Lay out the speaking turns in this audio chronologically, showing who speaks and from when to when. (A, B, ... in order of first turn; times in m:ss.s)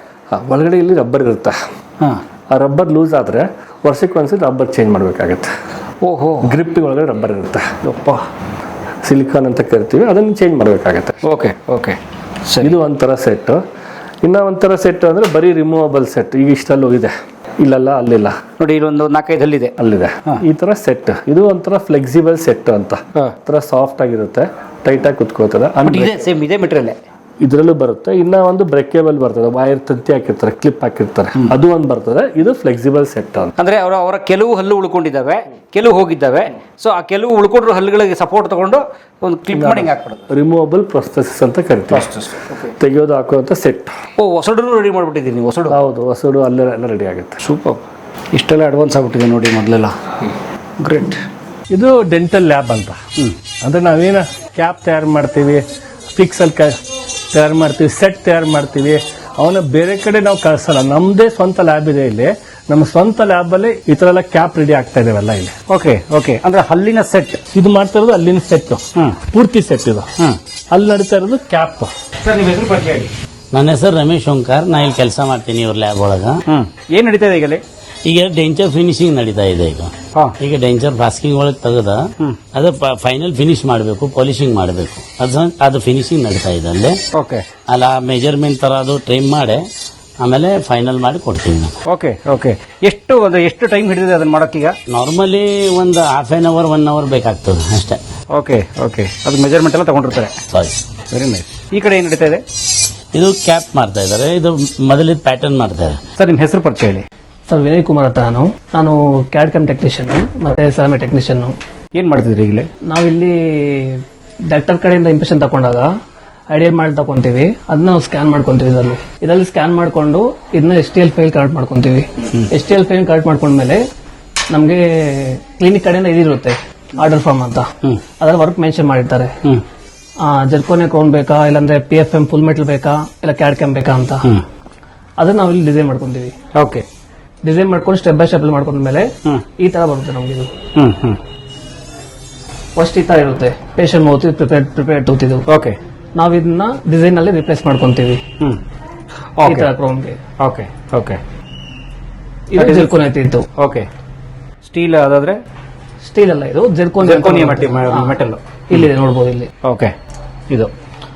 0:00.3-0:01.6 A
0:02.5-0:05.5 A
0:06.0-0:06.5 B
0:06.4-0:07.8 A
0:07.8-0:08.3 B
0:09.0-0:11.2 A
0:11.2-0:12.8 B
0:12.6-0:13.6 A
0:14.2-0:18.4 A
0:18.6-0:20.4 B
0:19.8-0:26.2 A
0:25.8-0:27.0 B
0:27.4-0:33.5 A
0:33.6-0:40.3 B
0:39.5-0:42.1 A
0:41.9-0:42.7 B
0:42.8-0:44.0 A
0:44.2-0:45.8 B
0:45.7-0:47.4 A
0:47.4-0:50.0 B
0:50.8-0:51.2 B
0:51.7-0:53.0 A
0:53.6-0:56.8 A
0:57.3-1:05.6 A
1:05.7-1:07.4 B
1:07.5-1:10.1 A
1:10.7-1:11.9 A
1:12.2-1:13.1 B
1:13.5-1:16.4 C
1:16.4-1:17.6 B
1:18.0-1:27.0 C
1:27.1-1:27.5 B
1:27.7-1:29.7 C
1:30.2-1:31.8 C
1:31.8-1:34.8 B
1:34.9-1:38.0 C
1:38.3-1:40.4 B
1:40.5-1:40.8 C
1:41.1-1:42.4 B
1:43.1-1:46.0 C
1:46.2-1:47.1 B
1:47.5-1:51.6 D
1:51.9-1:52.7 B
1:52.8-1:55.9 D
1:56.5-2:03.8 D
2:04.5-2:09.4 D
2:10.2-2:14.3 D
2:15.2-2:16.3 D
2:16.5-2:16.8 B
2:17.4-2:20.5 D
2:20.8-2:21.2 B
2:22.8-2:25.5 D
2:25.5-2:25.8 B
2:26.2-2:28.2 D
2:29.4-2:29.7 B
2:29.4-2:30.2 D
2:30.4-2:31.2 B
2:32.5-2:33.5 D
2:32.6-2:33.0 B
2:33.5-2:33.9 B
2:34.6-2:35.4 B
2:36.0-2:38.2 D
2:37.0-2:38.8 B
2:38.7-2:39.5 D
2:39.6-2:39.9 B